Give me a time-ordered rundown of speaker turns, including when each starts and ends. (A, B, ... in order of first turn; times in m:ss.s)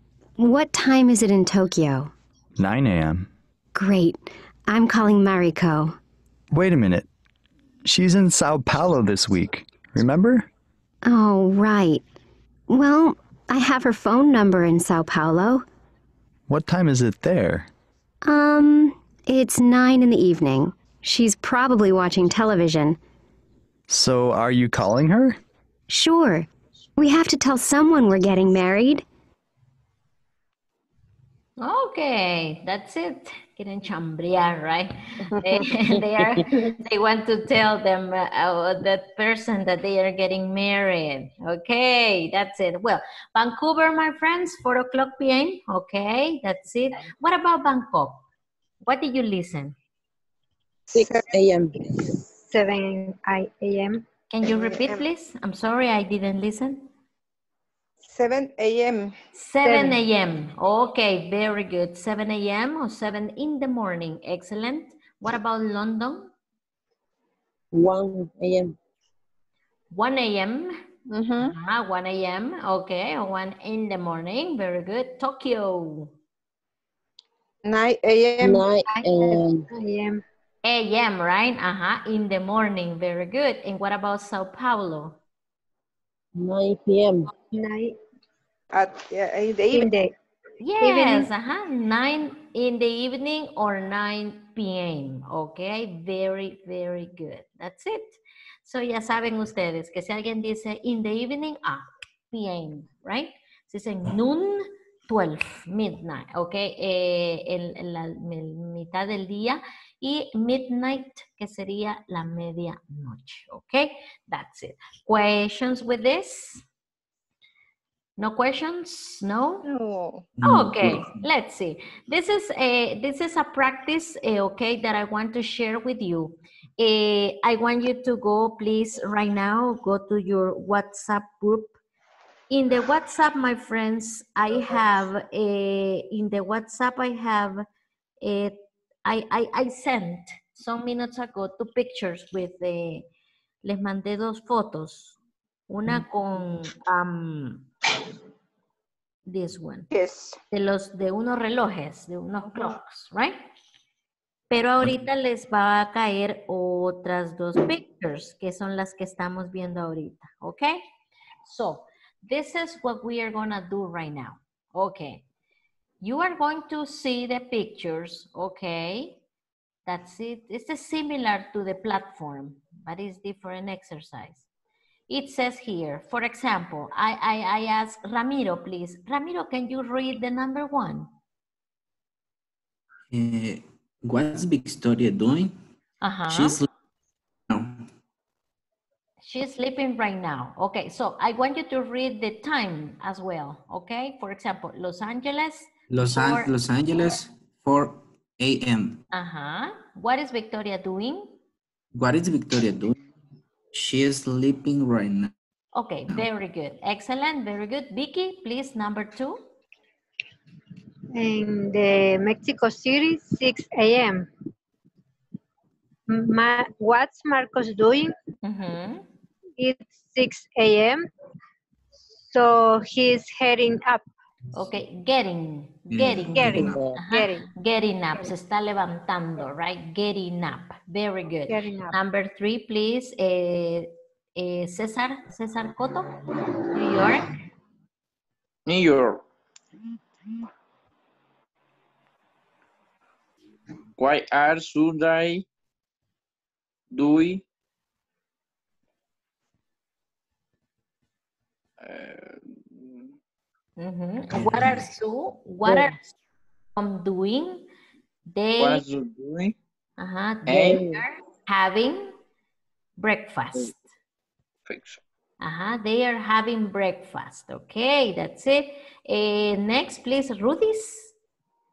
0:00.4-0:02.1 A
0:02.6-0:03.3 B
0:03.7-0:06.0 A
0:06.5-0:07.1 B
0:07.8-0:10.5 B
0:11.0-0:12.0 A
0:12.7-0:15.6 A
0:16.5-0:17.7 B
0:18.2-0:23.0 A
0:23.9-0:25.4 B
0:25.9-0:29.0 A
0:31.6-0:48.2 C
0:48.8-0:49.7 C
0:50.9-0:51.3 D
0:50.9-0:51.8 E
0:51.8-0:54.0 F
0:54.3-0:56.9 C
0:54.4-0:55.0 D
0:58.0-0:59.1 D
0:59.3-1:06.3 C
0:59.6-1:00.0 F
1:07.7-1:08.7 E
1:09.9-1:10.7 C
1:11.1-1:11.5 D
1:11.4-1:16.1 C
1:17.6-1:18.6 D
1:18.4-1:19.6 E
1:18.9-1:20.2 F
1:20.6-1:25.2 C
1:26.4-1:27.3 E
1:27.5-1:28.0 F
1:28.7-1:29.9 D
1:29.7-1:30.1 F
1:30.6-1:56.6 C
1:30.8-1:31.3 F
1:58.2-1:59.7 C
1:59.6-2:00.2 D
2:00.4-2:01.2 G
2:00.4-2:11.8 C
2:12.5-2:17.6 C
2:18.2-2:23.1 C
2:23.6-2:25.2 C
2:25.7-2:27.7 C
2:29.2-2:29.9 C
2:29.9-2:30.4 D
2:30.5-2:33.4 C
2:34.5-2:40.8 C
2:41.4-2:45.2 C
2:46.0-2:49.2 C
2:49.8-2:54.4 C
2:55.1-3:01.1 C
3:03.1-3:05.6 G
3:06.0-3:06.6 C
3:06.3-3:06.7 G
3:07.5-3:07.9 G
3:09.2-3:17.2 C
3:15.9-3:19.0 G
3:19.1-3:21.4 C
3:21.9-3:22.9 G
3:23.7-3:25.3 G
3:25.7-3:29.4 C
3:31.1-3:34.2 F
3:36.1-3:38.1 F
3:38.4-3:39.0 C
3:39.6-3:41.0 F
3:42.2-3:44.0 F
3:44.5-3:56.1 C
3:45.9-3:46.8 G
3:46.3-3:47.5 F
3:46.5-3:47.0 E
3:51.5-3:52.0 F
3:56.7-3:57.3 C
3:58.6-3:59.2 H
4:04.0-4:05.4 H
4:06.9-4:07.4 H
4:11.8-4:13.1 H
4:13.8-4:16.0 C
4:14.3-4:14.9 G
4:16.8-4:17.7 C
4:18.3-4:18.8 C
4:18.6-4:19.5 H
4:20.0-4:22.2 C
4:20.4-4:20.8 H
4:20.6-4:21.0 E
4:23.0-4:23.8 C
4:24.6-4:25.0 H
4:25.4-4:31.1 C